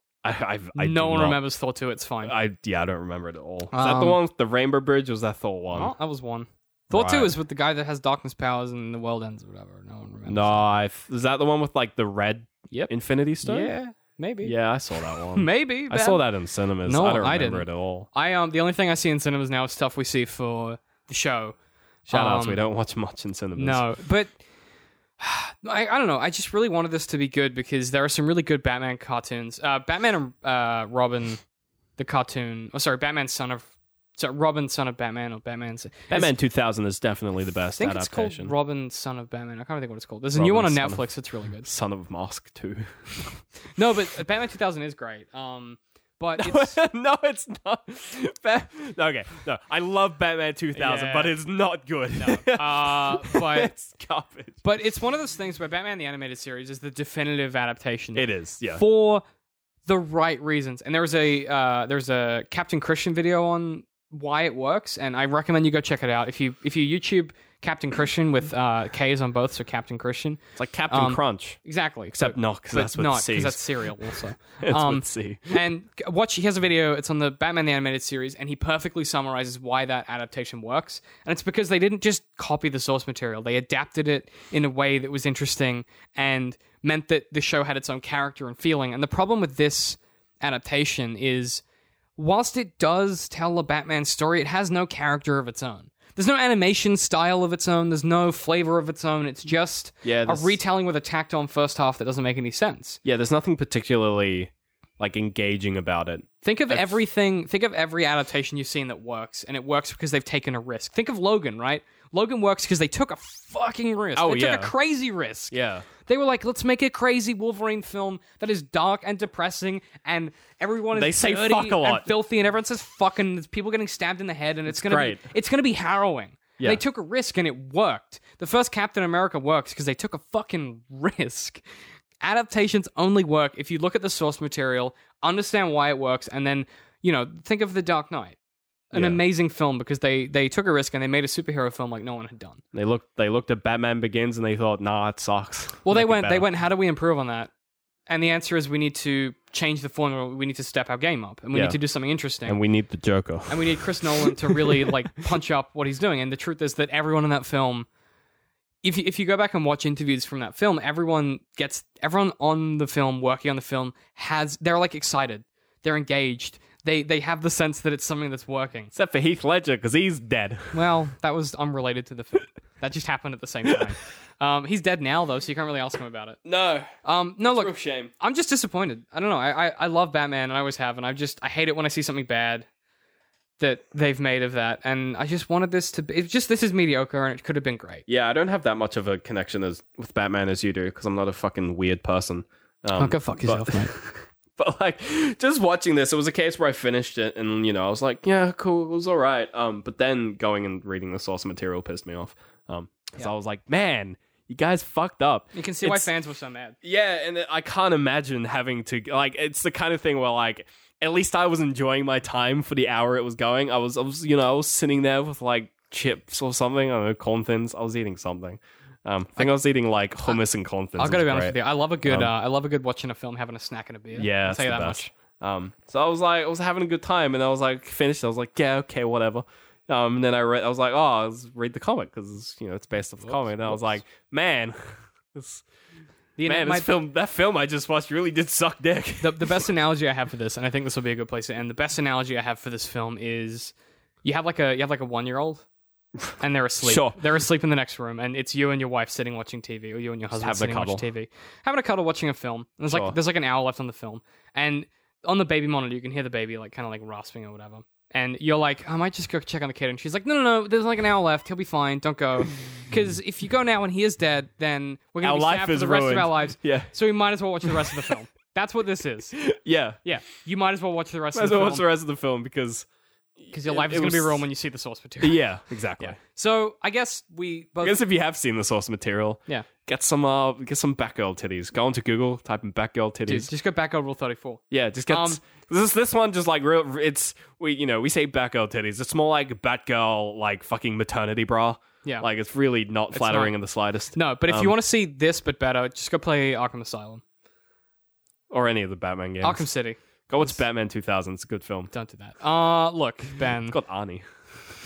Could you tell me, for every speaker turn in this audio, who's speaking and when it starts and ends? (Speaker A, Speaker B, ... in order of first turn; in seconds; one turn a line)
Speaker A: 0.2-1.4
Speaker B: 0.8-2.3
Speaker A: 2.2-5.9
Speaker B: 3.7-4.2
Speaker B: 5.7-10.6
Speaker A: 6.9-7.3
Speaker A: 10.3-13.7
Speaker B: 12.7-14.5
Speaker A: 14.4-18.1
Speaker B: 15.3-16.2
Speaker B: 16.8-21.6
Speaker A: 22.1-23.8
Speaker B: 22.1-22.6
Speaker B: 23.6-24.4
Speaker B: 25.2-31.4
Speaker B: 32.0-36.3
Speaker A: 36.1-38.5
Speaker B: 37.8-41.7
Speaker A: 40.3-41.0
Speaker A: 41.6-43.4
Speaker B: 43.8-46.8
Speaker A: 46.4-54.6
Speaker B: 50.7-51.4
Speaker B: 52.2-53.7
Speaker B: 54.6-59.2
Speaker A: 58.1-58.8
Speaker B: 59.9-91.6
Speaker A: 70.5-71.6
Speaker A: 72.1-75.6
Speaker B: 92.2-103.0
Speaker A: 100.0-100.6
Speaker A: 103.0-107.0
Speaker B: 106.4-131.6
Speaker A: 114.2-114.7
Speaker A: 115.5-115.8
Speaker A: 120.9-122.1
Speaker A: 124.7-125.2
Speaker B: 132.2-138.4
Speaker B: 138.9-142.6
Speaker A: 138.9-139.2
Speaker A: 142.7-146.4
Speaker B: 145.8-147.5
Speaker B: 148.1-152.6
Speaker A: 151.5-151.8
Speaker A: 152.4-154.9
Speaker B: 153.5-157.9
Speaker B: 158.8-168.9
Speaker A: 168.9-170.8
Speaker B: 170.7-176.4
Speaker A: 176.4-176.9
Speaker B: 177.0-182.7
Speaker A: 177.4-178.1
Speaker B: 183.6-188.0
Speaker A: 188.1-206.1
Speaker B: 192.9-193.9
Speaker B: 205.5-206.8
Speaker A: 206.8-222.3
Speaker B: 221.0-225.1
Speaker A: 224.2-235.6
Speaker B: 233.2-233.9
Speaker B: 236.4-236.9
Speaker A: 236.4-239.7
Speaker B: 239.2-243.7
Speaker B: 244.2-245.6
Speaker B: 246.4-269.4
Speaker A: 246.8-247.2
Speaker A: 250.3-251.1
Speaker A: 252.9-253.2
Speaker A: 265.2-266.9
Speaker A: 267.6-268.1
Speaker A: 269.4-270.0
Speaker B: 270.0-271.8
Speaker A: 271.3-272.9
Speaker A: 273.4-274.4
Speaker B: 273.5-275.4
Speaker A: 275.2-276.2
Speaker B: 276.0-278.0
Speaker A: 277.8-283.5
Speaker B: 283.3-285.4
Speaker A: 284.7-294.8
Speaker B: 293.1-293.5
Speaker B: 294.1-297.2
Speaker A: 298.5-299.7
Speaker B: 299.4-300.5
Speaker A: 300.3-301.9
Speaker B: 301.9-303.8
Speaker A: 303.7-304.2